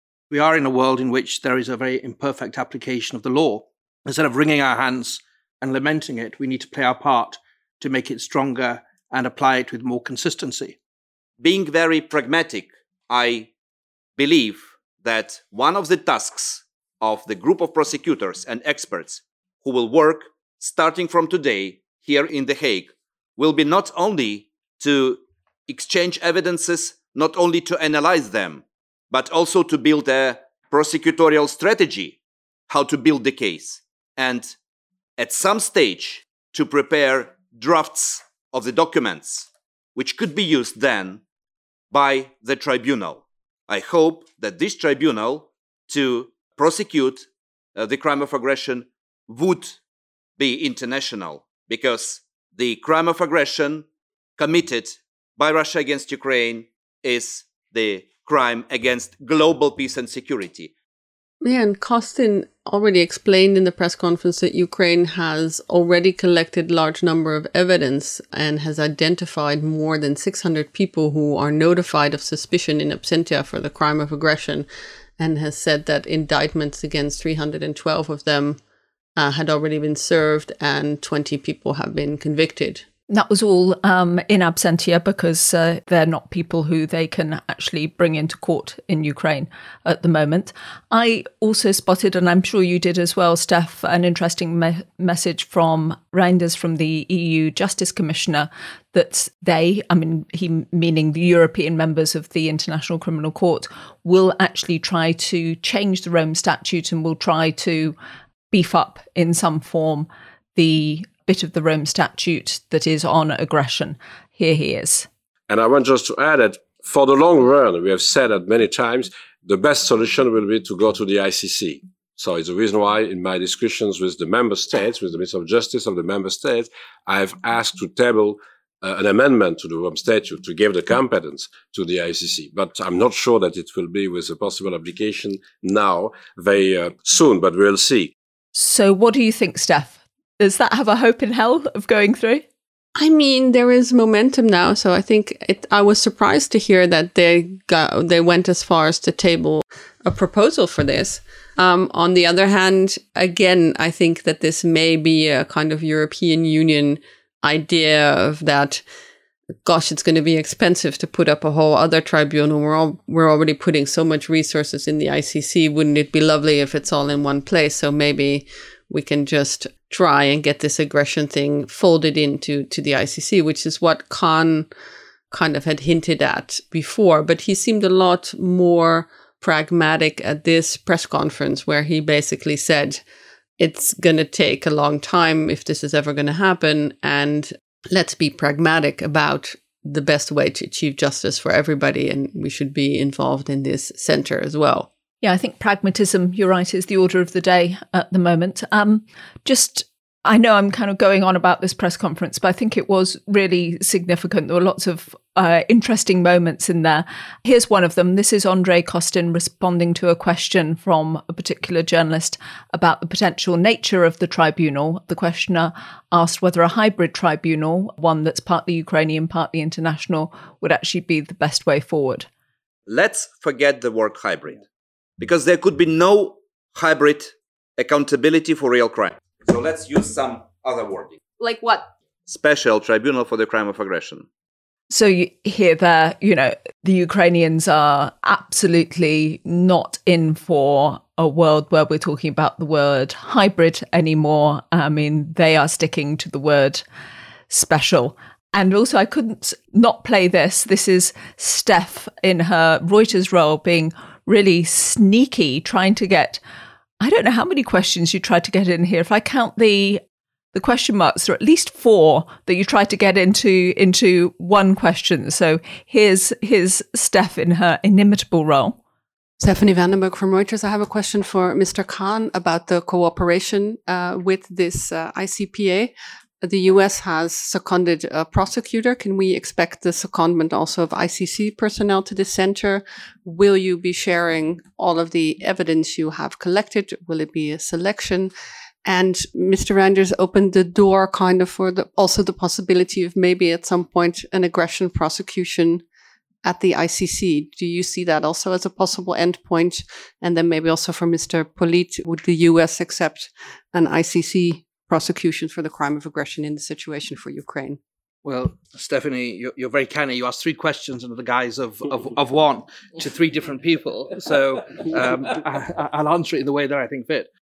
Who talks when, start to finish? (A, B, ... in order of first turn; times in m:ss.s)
0:00.3-0:10.8 A
0:11.4-0:13.5 B
0:14.2-0:32.2 B
0:32.7-0:34.6 B
0:35.2-0:41.2 B
0:41.9-0:49.8 B
0:50.4-0:53.9 B
0:54.4-1:00.7 B
1:01.4-1:14.7 C
1:15.2-1:18.6 C
1:19.2-1:22.8 C
1:23.1-1:48.0 D
1:48.5-1:55.1 D
1:55.5-2:18.1 E
2:18.5-2:22.4 D
2:23.0-2:38.8 C
2:39.6-2:54.7 C
2:55.3-3:03.0 C
3:03.6-3:14.9 C
3:15.2-3:42.3 D
3:42.9-3:44.6 B
3:45.2-3:51.2 B
3:52.3-3:54.3 B
3:54.9-4:06.8 D
4:07.5-4:16.4 D
4:17.0-4:20.0 D
4:20.5-4:28.8 D
4:29.4-4:48.3 C
4:48.8-4:55.8 C
4:56.4-5:07.8 C
5:08.2-5:17.3 A